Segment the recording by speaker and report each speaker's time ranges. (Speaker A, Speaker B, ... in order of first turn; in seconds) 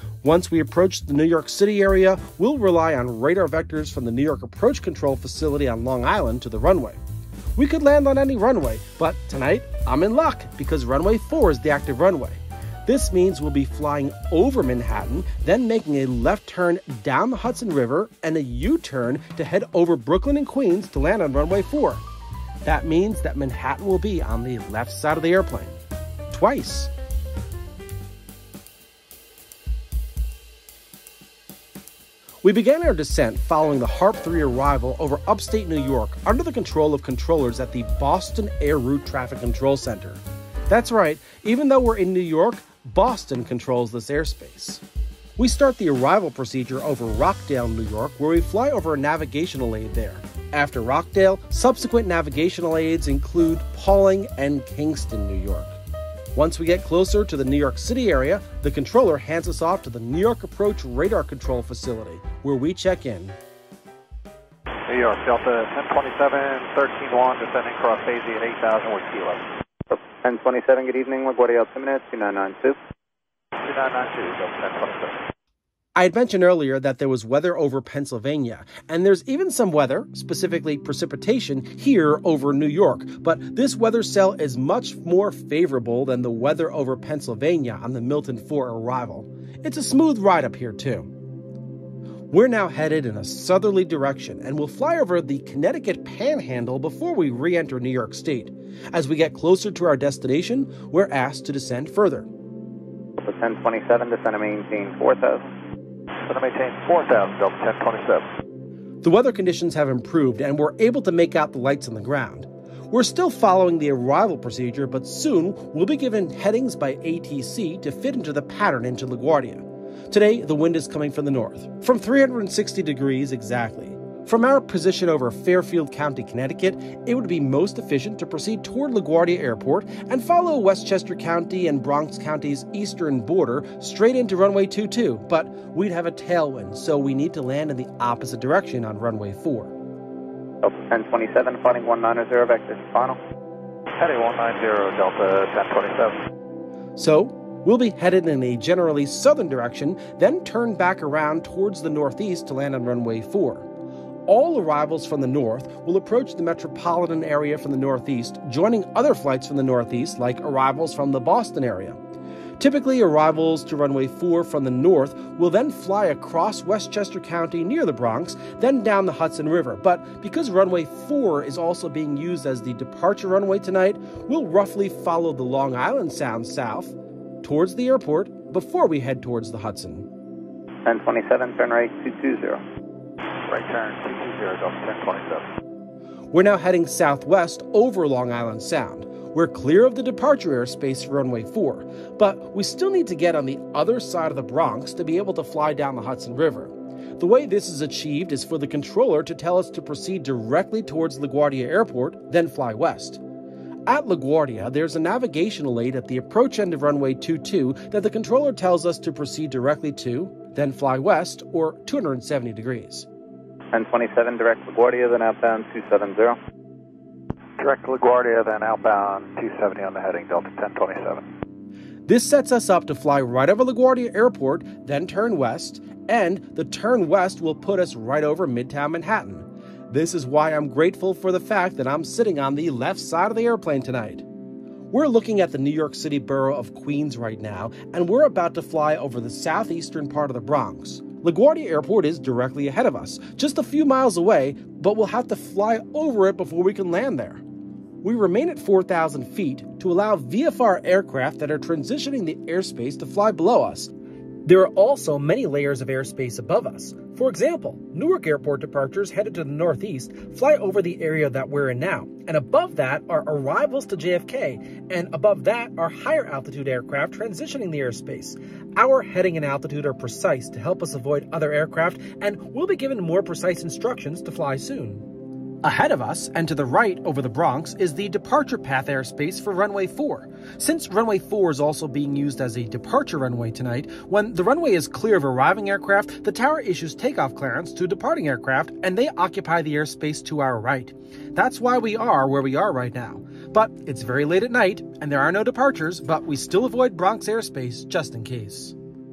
Speaker A: 0.2-7.0, 7.6-22.0, 22.6-25.8, 26.3-26.9, 32.4-44.8, 45.4-55.8, 56.4-63.4, 76.0-91.1, 92.3-102.3, 109.0-139.7, 147.0-153.7, 154.3-162.0, 162.6-180.1, 186.3-203.2, 203.9-213.1, 222.1-234.3, 234.9-247.4, 248.0-253.9, 254.4-275.1, 275.6-298.8
Speaker B: 64.9-69.4, 73.7-75.2, 106.3-108.2, 144.0-146.2, 183.5-185.5, 217.6-221.3
Speaker C: 69.9-72.8, 103.2-105.5, 140.6-143.2, 180.8-182.6, 213.7-216.4